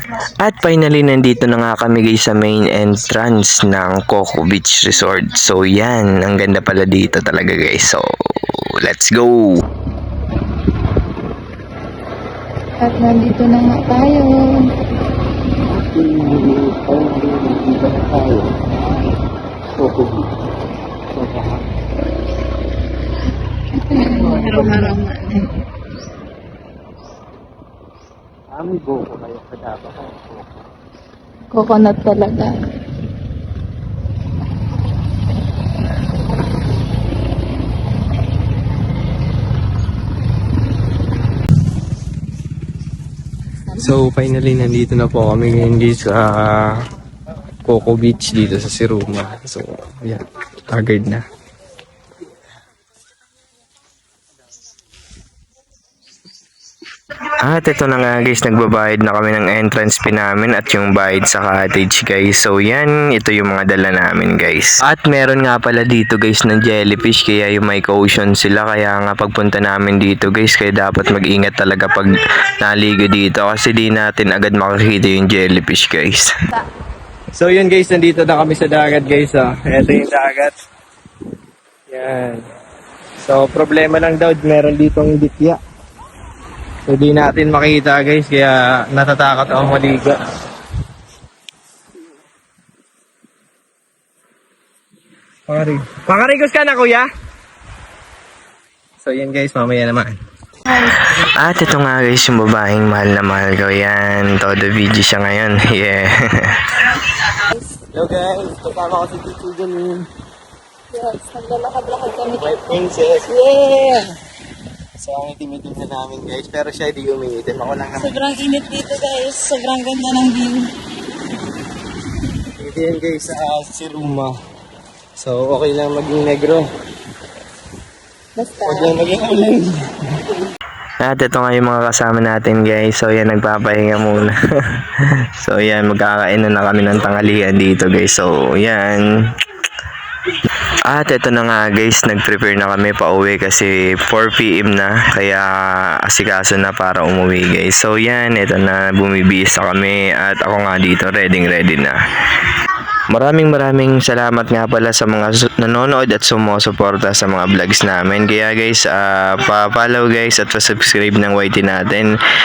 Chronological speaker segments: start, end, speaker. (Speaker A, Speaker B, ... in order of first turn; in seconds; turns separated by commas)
Speaker A: 0.4-9.7, Speaker B: 12.8-14.3, Speaker C: 16.2-16.6, Speaker B: 23.9-25.5, Speaker C: 28.6-30.2, Speaker B: 31.5-32.5, Speaker C: 43.8-46.8, Speaker C: 47.7-51.2, Speaker A: 57.4-76.3, Speaker C: 77.3-80.5, Speaker C: 81.9-82.4, Speaker C: 83.2-85.6, Speaker C: 86.9-90.2, Speaker C: 95.5-97.1, Speaker C: 99.0-100.2, Speaker A: 100.8-107.3, Speaker C: 107.9-110.1, Speaker B: 110.9-112.6, Speaker C: 112.3-113.3, Speaker B: 113.3-114.1, Speaker C: 115.0-118.2, Speaker B: 118.0-120.7, Speaker C: 122.6-124.3, Speaker C: 125.2-126.7, Speaker B: 128.4-128.9, Speaker C: 128.6-129.8, Speaker A: 131.0-139.1, Speaker A: 140.9-152.0, Speaker A: 153.1-162.2